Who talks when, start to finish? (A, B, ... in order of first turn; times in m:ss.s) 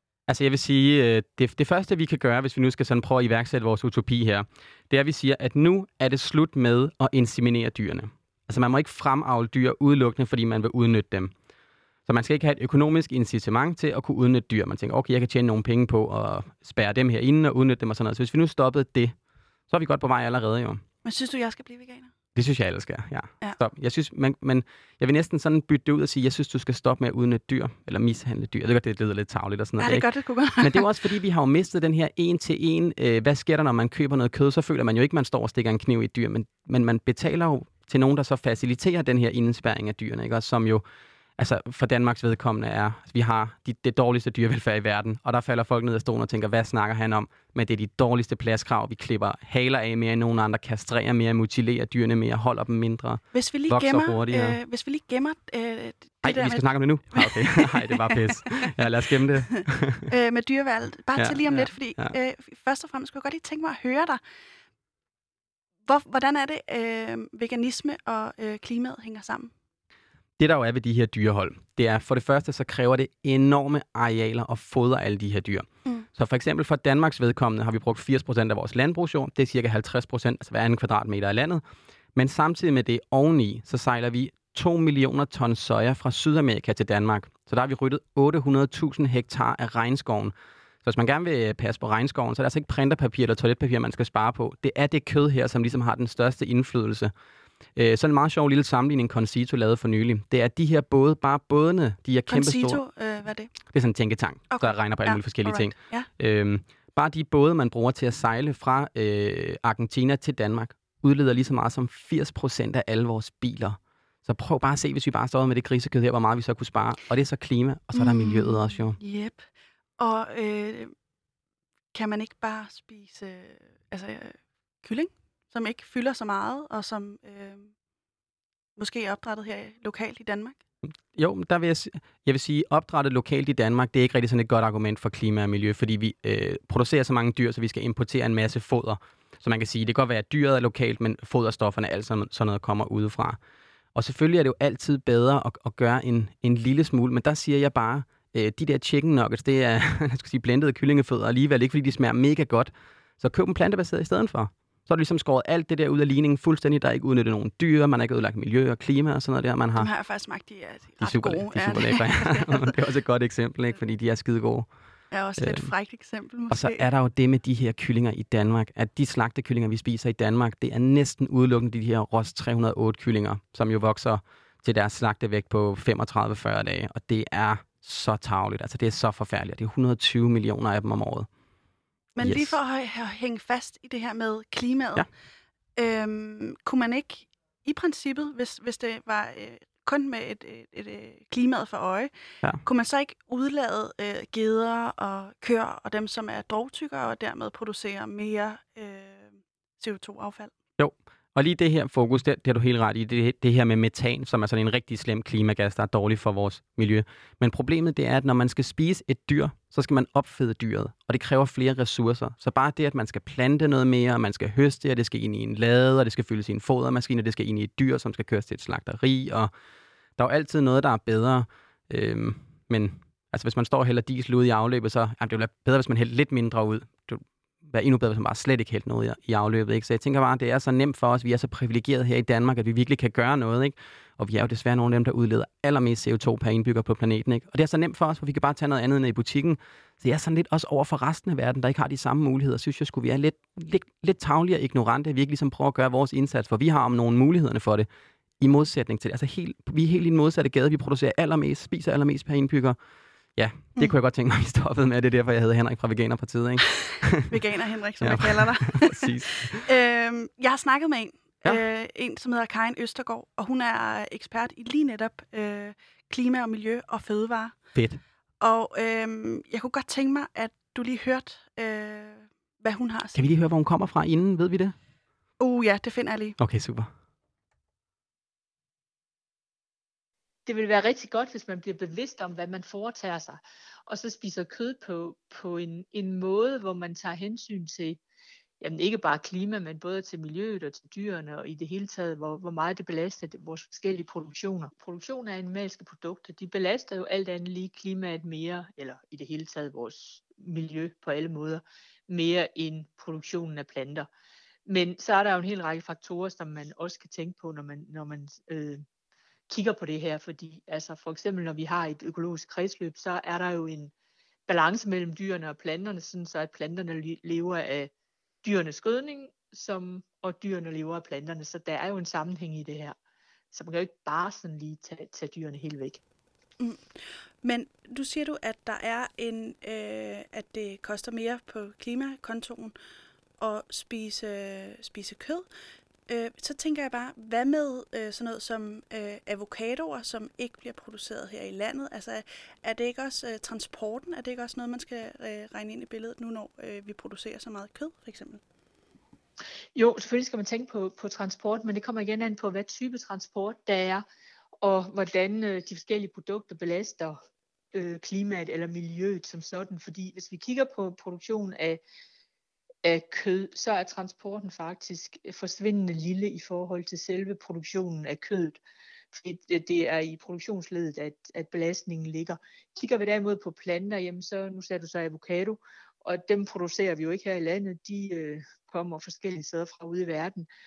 0:00.3-0:11.3 A
0:12.1-0:19.2 A
0:19.7-0:20.8 A
0:21.0-0:22.1 B
0:22.4-0:30.1 A
0:29.8-0:30.9 B
0:30.6-0:40.8 A
0:41.4-0:54.6 A
0:53.3-0:58.7 B
0:56.2-1:00.1 A
0:59.5-1:04.2 B
1:01.2-1:02.1 A
1:05.9-1:09.5 B
1:10.4-1:21.6 A
1:22.2-1:37.1 A
1:37.8-1:42.8 A
1:42.3-1:43.6 B
1:43.7-1:59.0 A
1:44.5-1:46.1 B
1:58.0-2:00.9 B
2:01.9-2:07.7 B
2:08.8-2:10.6 B
2:11.1-2:23.4 A
2:24.0-2:39.9 A
2:39.8-2:42.7 B
2:41.0-2:44.7 A
2:45.1-2:46.9 B
2:45.4-2:45.7 A
2:46.5-3:01.3 A
3:02.2-3:05.1 B
3:02.2-3:02.6 A
3:05.8-3:12.1 B
3:12.6-3:20.5 B
3:20.8-3:39.5 A
3:40.2-4:07.9 A
4:08.4-4:12.8 A
4:13.4-4:17.4 A
4:17.3-4:27.6 B
4:18.0-4:19.7 A
4:27.8-4:28.0 A
4:28.4-4:33.3 B
4:33.2-4:34.8 A
4:35.4-4:36.4 B
4:36.4-4:36.9 A
4:40.5-4:48.0 C
4:48.6-5:04.1 C
5:04.7-5:08.8 C
5:09.5-5:13.9 C
5:14.5-5:17.9 C
5:18.4-5:23.0 C
5:23.5-5:26.0 C
5:26.6-5:32.8 B
5:33.4-5:35.5 B
5:36.1-5:48.4 B
5:49.8-5:54.0 C
5:54.6-5:57.2 C
5:57.7-6:01.8 C
6:02.8-6:08.6 C
6:09.1-6:20.5 C